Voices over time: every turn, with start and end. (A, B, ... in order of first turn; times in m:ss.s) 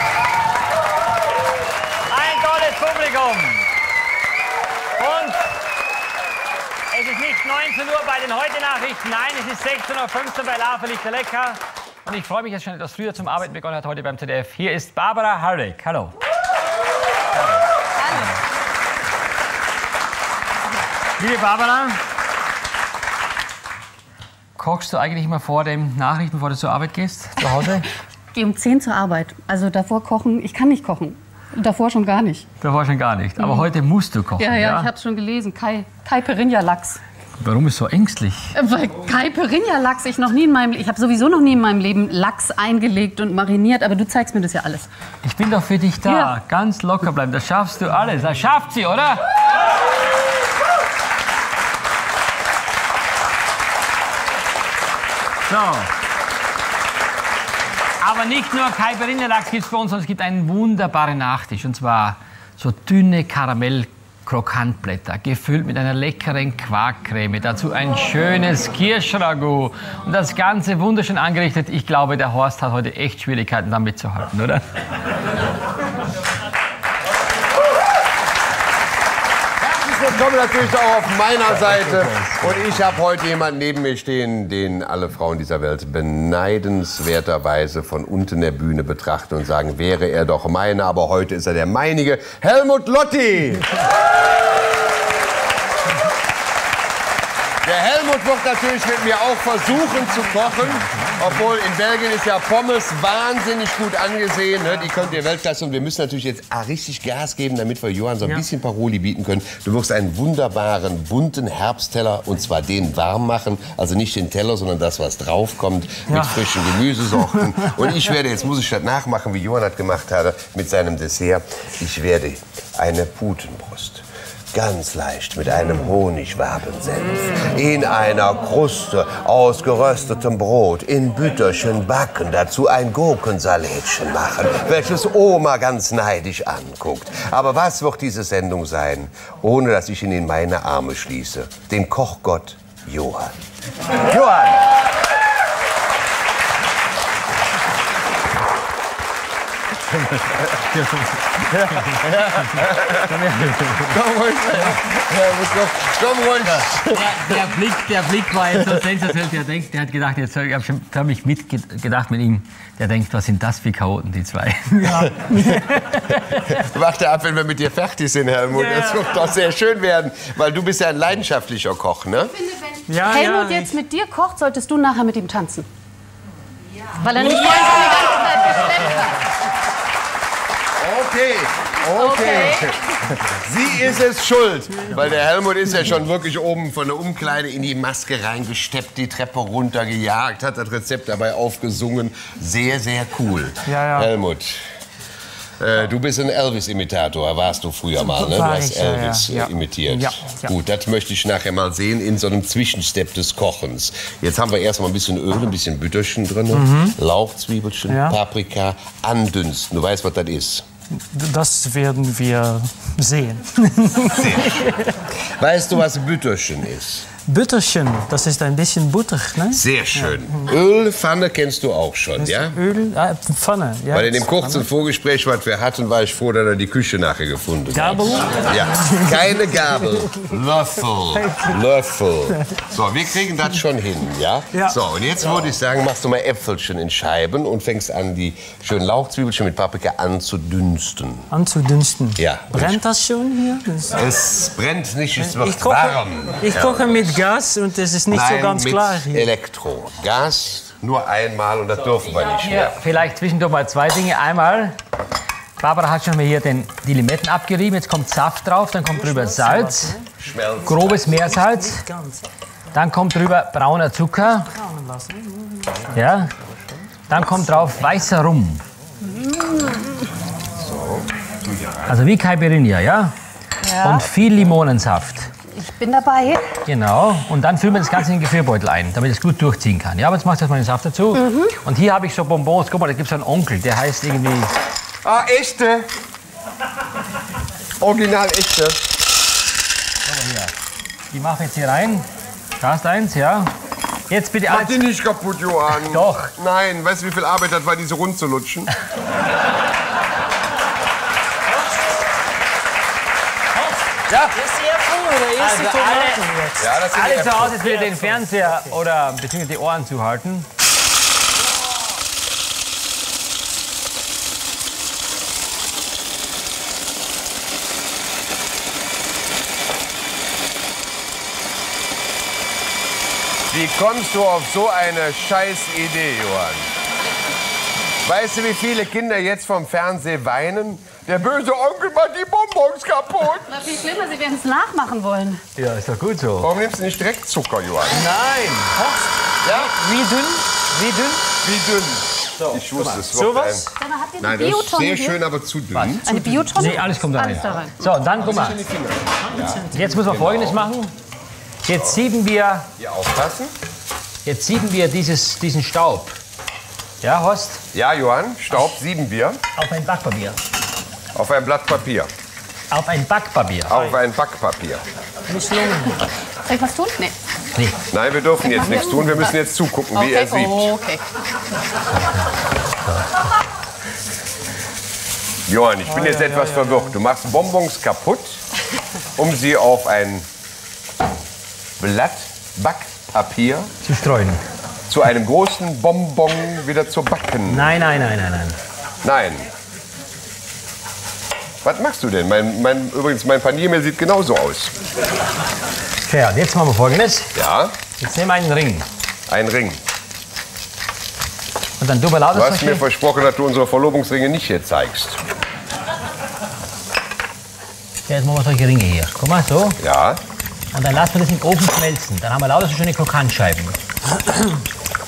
0:02.1-0:03.7 A
0:05.0-0:05.5 A
0:06.9-0:16.1 A
0:21.2-0:22.0 A
0:24.6-0:27.9 A
0:28.3-0:32.5 B
0:32.6-0:34.9 A
0:33.4-0:33.7 B
0:34.4-0:37.0 B
0:37.4-0:38.5 A
0:38.5-0:44.9 B
0:45.2-0:49.2 A
0:46.0-0:46.3 B
0:55.5-0:55.9 A
0:58.0-1:14.7 A
1:19.7-1:33.8 C
1:21.5-1:22.5 A
1:37.6-2:23.3 C
1:56.1-1:57.9 D
2:23.9-2:24.6 C
2:29.9-2:34.0 A
2:31.5-2:33.1 C
2:33.8-2:37.2 C
2:36.4-2:45.4 A
2:38.5-2:38.8 C
2:44.8-2:46.1 D
2:46.1-2:46.5 A
2:46.5-2:52.3 C
2:48.5-2:49.1 D
2:52.4-2:55.7 B
2:52.9-2:53.8 D
2:57.0-2:59.2 B
3:00.8-3:14.7 C
3:01.8-3:02.8 B
3:13.6-3:14.1 D
3:15.6-3:30.6 C
3:18.0-3:20.5 D
3:26.5-3:27.0 D
3:27.9-3:28.2 D
3:31.0-3:35.0 D
3:34.0-3:37.1 C
3:37.2-3:40.4 D
3:39.5-3:42.6 C
3:42.2-3:44.6 D
3:43.9-4:01.3 C
3:47.7-3:50.3 D
3:51.1-3:51.7 D
3:52.3-3:52.6 D
3:54.5-3:54.8 D
4:01.3-4:04.0 D
4:02.2-4:02.8 C
4:03.9-4:07.2 C
4:05.2-4:09.3 D
4:08.1-4:12.8 C
4:12.0-4:14.8 A
4:15.6-4:19.9 A
4:18.9-4:20.1 D
4:20.2-4:21.2 C
4:20.6-4:21.8 A
4:20.9-4:22.2 D
4:22.7-4:24.5 A
4:24.5-4:25.9 D
4:25.9-4:26.3 A
4:26.3-4:26.6 C
4:27.1-4:28.6 A
4:29.0-4:30.1 B
4:30.6-4:32.0 C
4:31.8-4:33.1 A
4:33.6-4:34.0 B
4:33.8-4:35.3 A
4:35.5-4:36.5 B
4:36.6-4:44.5 A
4:41.1-4:41.5 B
4:45.0-4:45.9 C
4:47.8-4:48.8 C
4:50.0-4:50.5 A
4:51.1-4:52.0 A
4:52.6-4:53.5 A
4:54.1-4:54.8 A
4:54.5-4:58.7 C
4:55.7-4:56.3 A
5:04.1-5:04.4 A
5:04.3-5:06.7 D
5:05.4-5:06.2 A
5:06.6-5:07.7 C
5:06.8-5:10.5 A
5:07.6-5:08.6 D
5:23.5-5:26.7 C
5:28.0-5:33.5 C
5:33.5-5:35.4 B
5:35.6-5:36.5 A
5:36.4-5:38.1 C
5:37.9-5:38.8 A
5:37.9-5:41.2 D
5:39.4-5:39.8 C
5:41.4-5:43.6 C
5:42.4-5:43.0 A
5:43.0-5:43.8 D
5:43.8-5:45.2 B
5:44.2-5:46.0 C
5:45.7-5:48.6 A
5:46.0-5:47.8 B
5:46.1-5:46.5 D
5:47.8-5:50.6 C
5:49.2-5:50.0 D
5:49.7-5:50.9 A
5:51.6-5:52.7 A
5:51.7-5:52.0 C
5:52.8-5:53.5 C
5:54.2-5:56.2 A
5:57.0-5:57.6 A
5:57.7-5:59.4 C
5:59.6-6:00.4 A
6:01.1-6:02.1 C
6:02.7-6:03.8 A
6:03.7-6:04.8 C
6:03.7-6:04.0 D
6:05.3-6:06.0 D
6:06.4-6:07.2 B
6:07.9-6:10.7 C
6:08.4-6:09.3 B
6:09.9-6:11.0 B
6:15.5-6:18.4 C
6:15.9-6:16.9 D
6:19.2-6:20.2 C
6:21.8-6:23.7 C
6:23.8-6:24.4 A
6:24.9-6:27.8 C
6:27.5-6:28.6 A
6:29.0-6:29.5 C
6:31.6-6:34.8 C
6:36.0-6:37.3 A
6:37.3-6:37.7 C
6:38.0-6:38.9 A
6:39.3-6:39.8 C
6:41.8-6:42.8 A
6:42.3-6:45.2 C
6:48.1-6:49.8 A
6:49.8-6:50.2 C
6:50.7-6:53.8 A